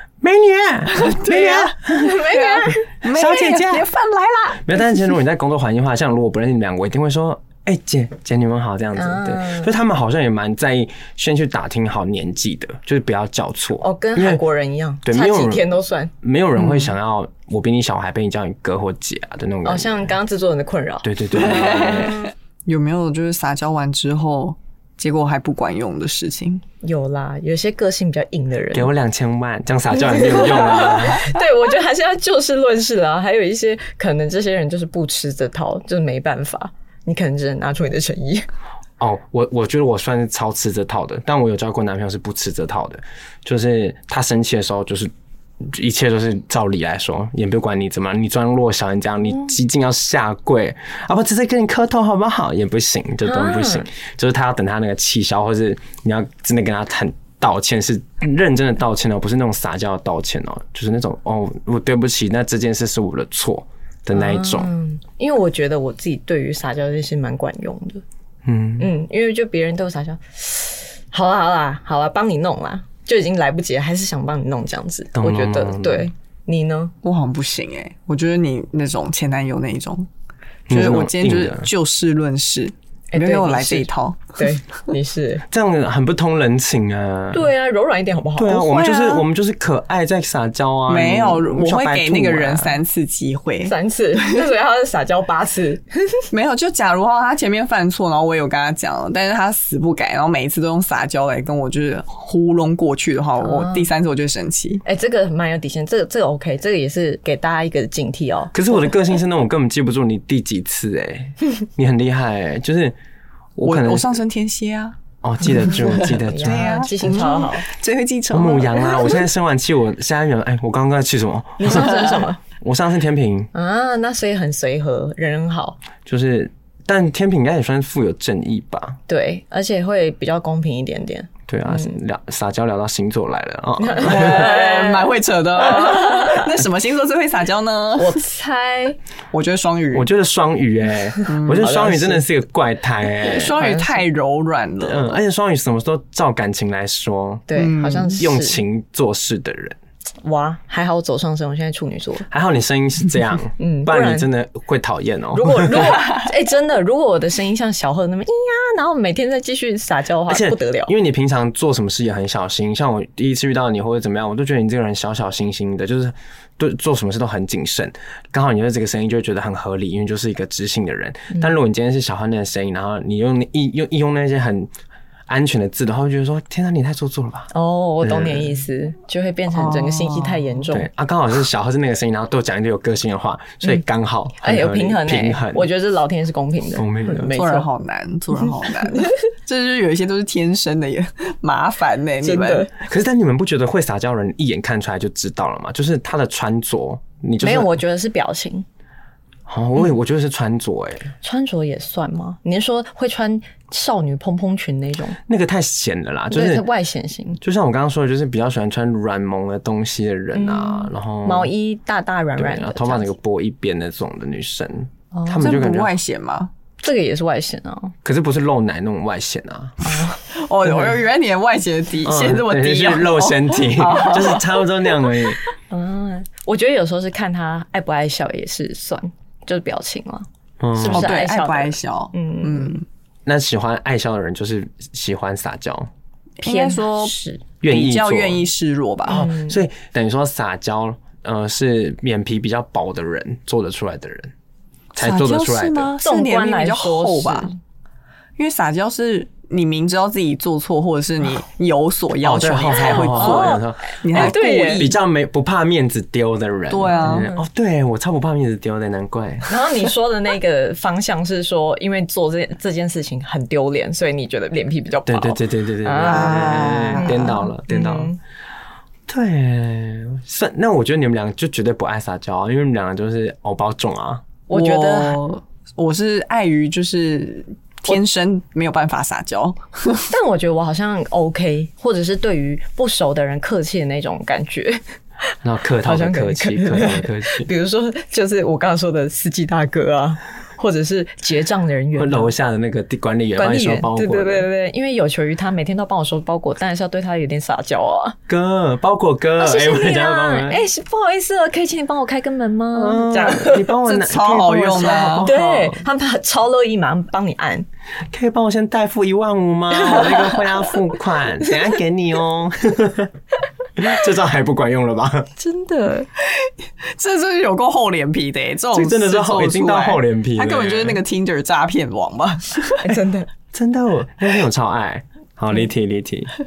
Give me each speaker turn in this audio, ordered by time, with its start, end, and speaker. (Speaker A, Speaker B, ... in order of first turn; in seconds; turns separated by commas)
Speaker A: 0.2-2.3, Speaker B: 0.9-4.7, Speaker C: 1.9-2.9, Speaker A: 3.0-3.9, Speaker A: 4.6-14.4, Speaker C: 8.9-9.7, Speaker C: 13.8-16.1, Speaker A: 15.0-15.7, Speaker A: 16.2-20.1, Speaker B: 16.6-16.9, Speaker C: 19.6-22.1, Speaker A: 21.0-22.2, Speaker B: 21.4-26.6, Speaker C: 26.8-28.9, Speaker A: 28.7-31.3, Speaker C: 30.0-38.5, Speaker A: 39.0-45.1, Speaker A: 45.6-64.7, Speaker C: 53.2-53.9, Speaker C: 64.1-68.0, Speaker A: 68.4-68.9, Speaker C: 68.8-76.9, Speaker A: 75.1-76.1, Speaker B: 77.0-80.1, Speaker A: 80.7-81.7, Speaker B: 80.7-84.4, Speaker C: 83.1-85.4, Speaker A: 85.5-87.5, Speaker C: 87.3-88.7, Speaker A: 88.3-92.8, Speaker B: 88.6-89.2, Speaker B: 90.9-94.4, Speaker C: 93.6-96.2, Speaker B: 96.3-104.8, Speaker C: 103.4-103.9, Speaker C: 104.8-108.5, Speaker A: 108.5-113.0, Speaker A: 113.5-114.2, Speaker B: 113.6-115.0, Speaker A: 115.2-116.8, Speaker B: 115.5-119.2, Speaker C: 115.9-117.7, Speaker A: 118.3-123.5, Speaker C: 121.6-122.4, Speaker C: 123.5-125.8, Speaker A: 126.0-129.0, Speaker C: 129.1-131.9, Speaker A: 131.5-134.5, Speaker C: 133.8-135.1, Speaker B: 134.0-138.2, Speaker C: 135.7-136.4, Speaker C: 138.0-139.0, Speaker B: 139.3-140.1, Speaker A: 139.9-143.5, Speaker B: 141.3-141.9, Speaker C: 141.6-142.2, Speaker B: 143.2-145.2, Speaker C: 143.5-143.9, Speaker A: 144.8-147.5, Speaker C: 147.5-148.6, Speaker B: 147.6-148.2, Speaker A: 148.2-149.8, Speaker C: 150.2-152.3, Speaker A: 152.3-156.0, Speaker C: 153.6-154.3, Speaker C: 155.3-160.9, Speaker A: 160.3-174.7, Speaker A: 175.3-177.5, Speaker C: 177.5-180.9, Speaker A: 178.0-178.5, Speaker B: 179.5-180.5, Speaker A: 180.7-185.7, Speaker C: 184.4-187.7, Speaker A: 186.8-187.3, Speaker B: 187.3-192.7, Speaker C: 192.2-192.7, Speaker A: 192.8-197.8, Speaker C: 197.4-198.7, Speaker A: 199.5-201.1, Speaker C: 201.2-205.2, Speaker A: 205.3-206.7, Speaker C: 206.3-207.4, Speaker A: 207.4-211.5, Speaker C: 210.3-213.1, Speaker A: 212.4-215.9, Speaker C: 215.1-215.4, Speaker B: 215.3-216.5, Speaker C: 216.8-217.9, Speaker A: 218.0-220.0, Speaker C: 219.8-220.2, Speaker B: 220.3-224.5, Speaker A: 222.0-225.4, Speaker C: 225.7-232.8, Speaker A: 230.6-231.1, Speaker B: 230.8-232.8, Speaker A: 233.2-235.9, Speaker B: 236.4-239.3, Speaker C: 236.4-237.4, Speaker A: 237.6-238.5, Speaker C: 239.1-239.6, Speaker A: 239.1-244.3, Speaker A: 244.9-245.9, Speaker B: 244.9-247.5, Speaker C: 246.0-247.6, Speaker B: 248.4-255.0, Speaker A: 252.2-259.5, Speaker C: 252.7-254.9, Speaker B: 256.7-257.3, Speaker C: 257.0-257.4, Speaker C: 259.5-268.2, Speaker A: 265.1-268.1, Speaker B: 266.0-267.3, Speaker A: 269.1-274.2, Speaker C: 274.5-275.2, Speaker B: 274.5-280.1, Speaker C: 280.1-284.8, Speaker A: 285.4-287.5, Speaker C: 285.8-292.3, Speaker A: 291.9-294.5, Speaker C: 293.4-298.2, Speaker A: 298.3-300.6, Speaker C: 299.4-303.7, Speaker A: 302.7-305.8, Speaker B: 303.8-305.3, Speaker C: 304.8-307.6, Speaker A: 308.1-313.1, Speaker C: 309.7-310.5, Speaker A: 313.8-315.3, Speaker C: 315.4-316.1, Speaker B: 316.2-323.0, Speaker A: 318.7-321.0, Speaker C: 322.8-323.3, Speaker A: 323.5-326.3